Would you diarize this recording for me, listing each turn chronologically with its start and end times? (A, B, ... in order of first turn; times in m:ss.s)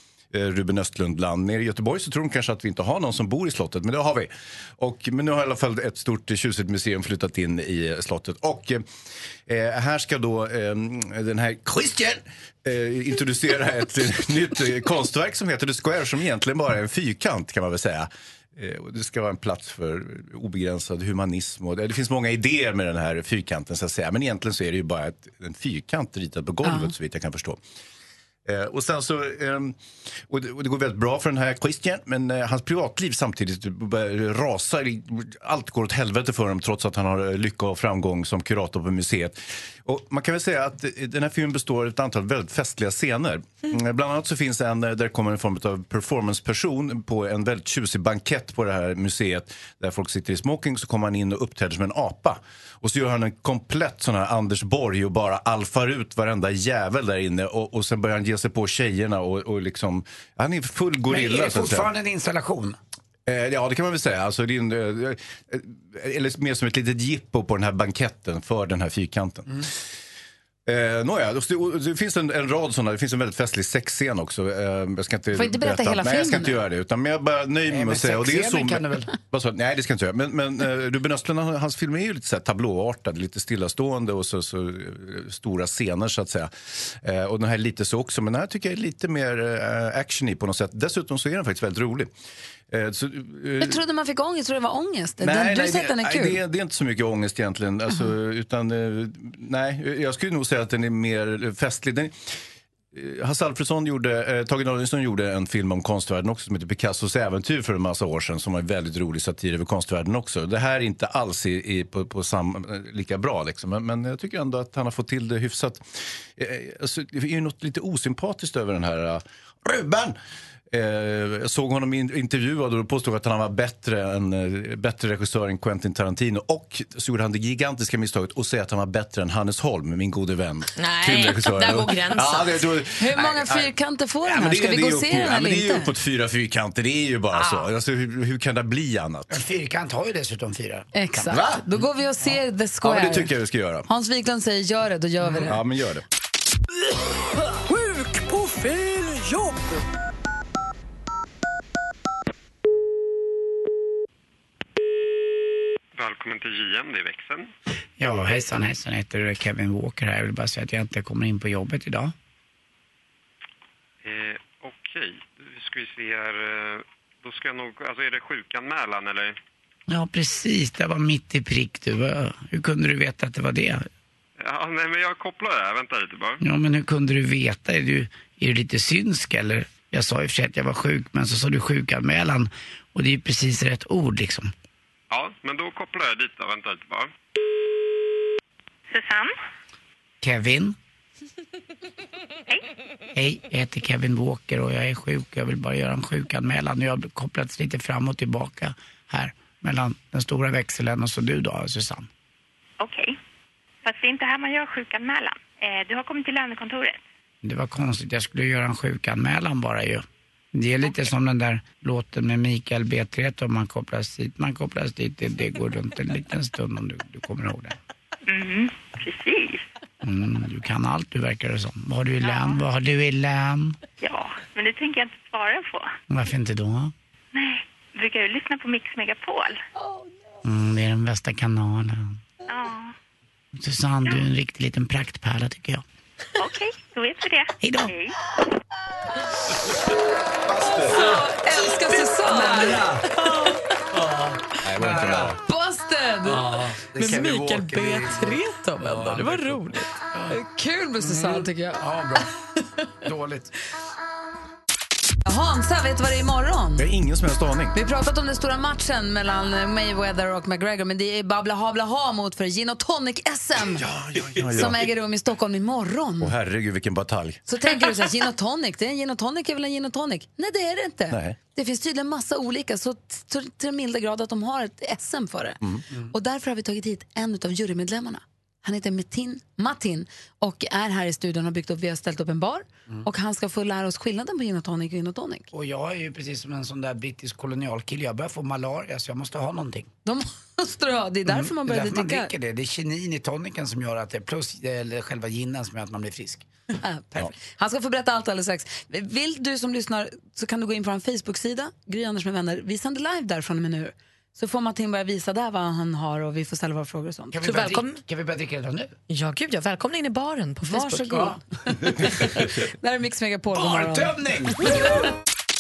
0:00.3-0:08.9 A
0:09.5-0:27.6 A
0:26.6-0:26.9 B
0:28.5-1:01.9 A
1:01.1-1:02.8 C
1:03.3-1:09.7 A
1:10.7-1:32.1 A
1:15.3-1:16.6 B
1:17.7-1:19.1 C
1:32.7-1:33.8 A
1:33.6-1:36.4 B
1:35.2-1:42.3 A
1:42.9-2:00.2 A
2:00.7-2:19.4 A
2:10.8-2:12.7 D
2:13.0-2:15.9 B
2:19.3-2:21.5 C
2:20.9-2:23.3 B
2:21.3-2:21.6 A
2:22.8-2:23.9 A
2:23.9-2:25.6 B
2:25.4-2:26.0 A
2:27.6-2:29.7 E
2:36.0-2:37.5 F
2:38.0-2:42.1 C
2:44.0-2:49.4 F
2:49.9-2:53.9 C
2:54.4-2:56.4 F
2:56.4-3:04.5 C
3:05.1-3:07.1 F
3:08.9-3:09.3 G
3:10.2-3:10.8 C
3:13.2-3:22.1 C
3:22.8-3:23.2 G
3:23.9-3:27.0 G
3:27.4-3:37.8 C
3:38.3-3:39.6 G
3:40.0-3:43.8 C
3:44.0-3:45.9 G
3:46.1-3:46.9 C
3:47.4-3:49.6 G
3:50.4-3:52.2 C
3:52.5-3:52.9 G
3:53.6-3:55.8 C
3:56.4-3:58.1 G
3:57.6-3:57.9 C
4:00.5-4:01.1 A
4:00.9-4:02.9 B
4:02.3-4:03.1 C
4:04.0-4:05.4 C
4:04.6-4:05.4 A
4:05.4-4:06.5 B
4:06.3-4:09.6 C
4:07.0-4:09.9 D
4:10.3-4:11.8 B
4:11.0-4:12.3 C
4:13.0-4:13.5 C
4:15.3-4:16.9 B
4:16.8-4:17.8 A
4:17.7-4:23.9 B
4:23.7-4:24.9 A
4:24.5-4:26.3 B
4:26.2-4:27.4 A
4:27.5-4:35.6 B
4:31.1-4:31.4 A
4:36.1-4:45.5 B
4:45.5-4:49.9 C
4:50.0-4:52.3 B
4:51.3-4:56.5 C
4:56.8-5:07.4 B
5:07.3-5:08.9 C
5:07.4-5:08.0 D
5:09.1-5:11.3 D
5:10.7-5:14.1 B
5:13.5-5:15.0 C